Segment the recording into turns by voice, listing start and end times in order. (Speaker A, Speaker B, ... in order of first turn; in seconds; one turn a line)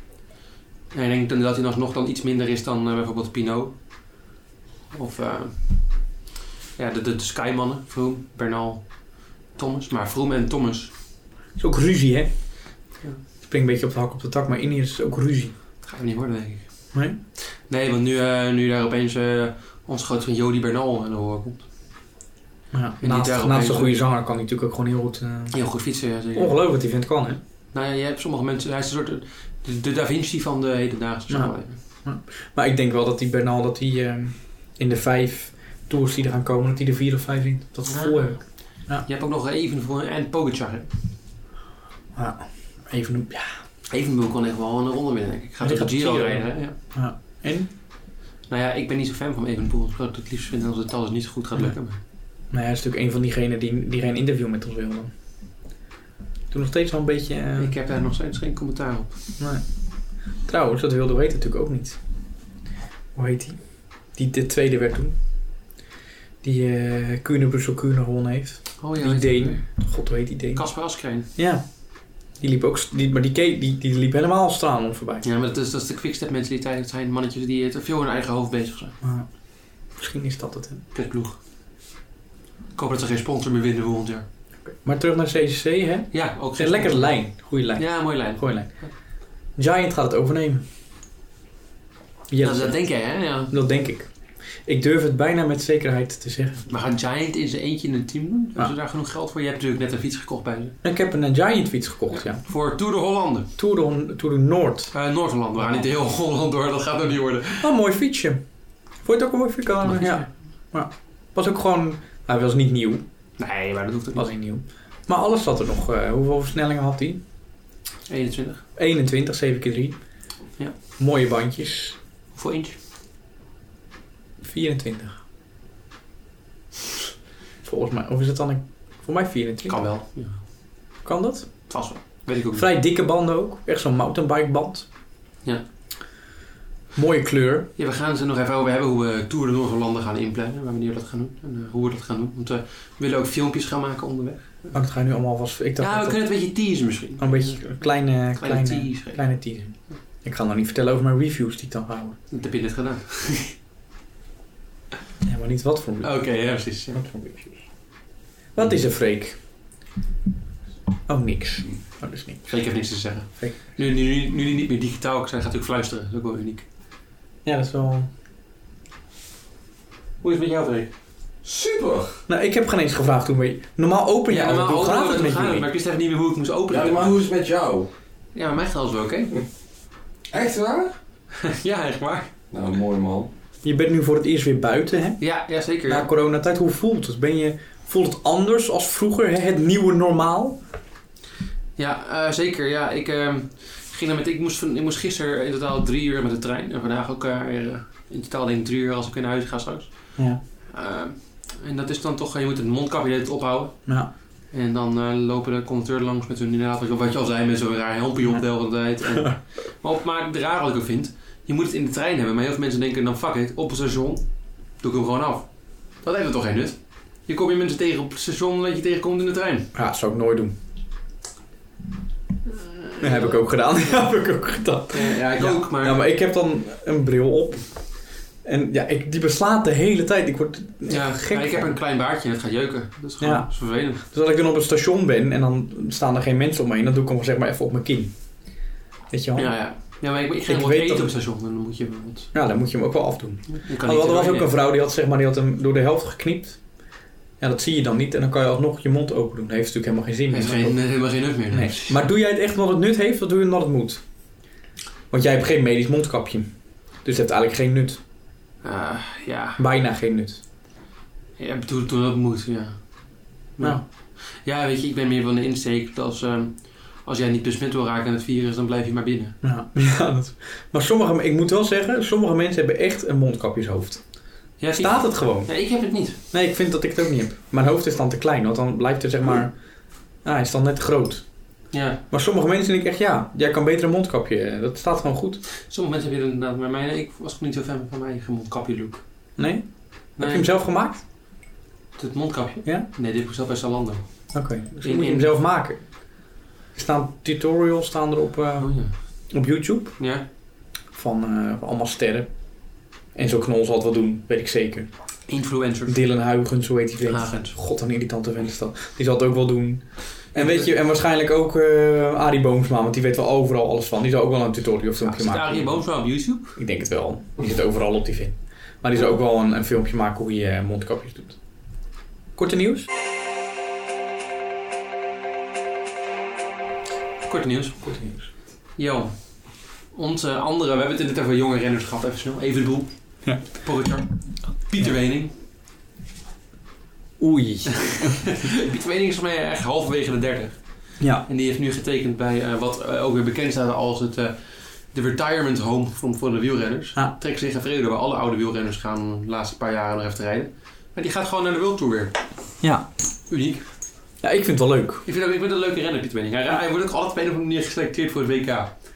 Speaker A: 0.9-3.7
Speaker A: 4.9-6.1
Speaker A: 6.8-9.0
Speaker A: 9.5-10.9
Speaker B: 11.6-12.3
Speaker B: 13.4-15.5
Speaker A: 15.8-21.7
Speaker B: 16.9-17.2
Speaker B: 22.7-25.5
Speaker A: 23.0-23.9
Speaker A: 25.5-26.6
Speaker B: 26.3-27.4
Speaker A: 27.7-31.8
Speaker B: 31.3-39.0
Speaker A: 37.9-40.9
Speaker B: 42.1-43.5
Speaker A: 43.9-46.8
Speaker B: 45.6-47.7
Speaker A: 48.5-52.0
Speaker B: 52.5-55.1
Speaker B: 56.5-57.7
Speaker A: 57.6-59.2
Speaker B: 60.4-62.0
Speaker B: 63.1-65.2
Speaker B: 66.4-70.7
Speaker A: 68.8-69.7
Speaker A: 70.5-71.3
Speaker B: 71.3-71.8
Speaker B: 72.3-75.2
Speaker A: 75.2-79.0
Speaker B: 79.0-79.3
Speaker B: 80.0-80.8
Speaker A: 80.9-81.4
Speaker A: 82.7-84.2
Speaker B: 84.7-88.7
Speaker A: 86.1-87.2
Speaker A: 87.8-88.9
Speaker B: 89.5-90.6
Speaker B: 92.3-92.8
Speaker A: 92.4-93.5
Speaker B: 93.5-94.1
Speaker B: 94.7-96.6
Speaker A: 96.7-100.8
Speaker B: 100.8-102.4
Speaker A: 102.1-103.5
Speaker B: 103.6-104.9
Speaker A: 104.9-107.7
Speaker B: 107.6-108.4
Speaker B: 109.0-113.0
Speaker A: 109.8-110.3
Speaker A: 113.4-114.3
Speaker B: 114.1-117.2
Speaker A: 118.1-118.6
Speaker B: 118.8-120.0
Speaker B: 121.0-122.0
Speaker A: 122.3-122.8
Speaker B: 124.4-125.2
Speaker B: 127.6-129.8
Speaker A: 129.7-130.4
Speaker B: 131.0-131.7
Speaker A: 131.7-132.7
Speaker B: 132.5-134.9
Speaker B: 136.9-137.7
Speaker A: 137.8-144.8
Speaker B: 144.7-146.3
Speaker A: 145.8-149.2
Speaker B: 147.2-152.2
Speaker A: 152.3-153.5
Speaker B: 155.2-156.2
Speaker A: 156.0-157.0
Speaker B: 156.9-157.6
Speaker B: 158.5-159.4
Speaker B: 161.1-162.5
Speaker A: 162.5-166.7
Speaker B: 167.4-168.1
Speaker A: 170.2-170.9
Speaker C: 171.4-172.2
Speaker B: 172.3-175.6
Speaker A: 174.3-177.2
Speaker C: 176.7-177.9
Speaker A: 178.3-179.3
Speaker C: 180.3-180.9
Speaker A: 181.3-182.3
Speaker C: 182.5-183.3
Speaker B: 183.6-185.2
Speaker A: 185.2-186.1
Speaker B: 185.9-190.6
Speaker A: 191.8-203.9
Speaker A: 204.5-214.2
Speaker A: 214.8-219.7
Speaker B: 219.7-220.5
Speaker A: 222.5-223.4
Speaker B: 223.0-227.7
Speaker A: 224.9-226.0
Speaker B: 228.4-231.8
Speaker A: 230.9-234.0
Speaker B: 233.2-238.1
Speaker B: 239.1-239.5
Speaker A: 239.3-242.3
Speaker B: 240.4-241.1
Speaker B: 242.3-246.6
Speaker A: 243.5-244.5
Speaker B: 247.4-250.8
Speaker A: 250.3-252.0
Speaker B: 251.5-254.0
Speaker B: 255.1-258.0
Speaker A: 258.6-259.6
Speaker B: 259.6-260.4
Speaker A: 261.4-262.8
Speaker A: 263.6-269.4
Speaker B: 269.4-274.0
Speaker A: 274.6-276.2
Speaker B: 274.7-275.5
Speaker B: 276.3-279.6
Speaker B: 280.2-281.3
Speaker A: 281.7-282.0
Speaker B: 282.1-285.4
Speaker A: 285.6-289.0
Speaker B: 289.4-291.0
Speaker A: 290.2-290.5
Speaker A: 292.0-295.3
Speaker B: 294.3-295.8
Speaker B: 296.7-298.7
Speaker A: 298.6-298.9
Speaker B: 299.3-300.0
Speaker A: 300.0-300.2
Speaker B: 300.9-302.3
Speaker B: 303.1-304.9
Speaker A: 305.3-306.0
Speaker B: 305.9-315.7
Speaker A: 307.1-307.6
Speaker A: 310.3-310.7
Speaker A: 315.0-316.6
Speaker B: 316.6-321.4
Speaker B: 322.4-322.9
Speaker A: 327.2-327.9
Speaker B: 327.8-328.3
Speaker A: 328.8-335.3
Speaker B: 337.2-338.3
Speaker A: 337.8-352.2
Speaker B: 341.0-341.2
Speaker B: 352.6-352.9
Speaker A: 353.3-353.6
Speaker B: 354.2-355.0
Speaker A: 355.0-358.7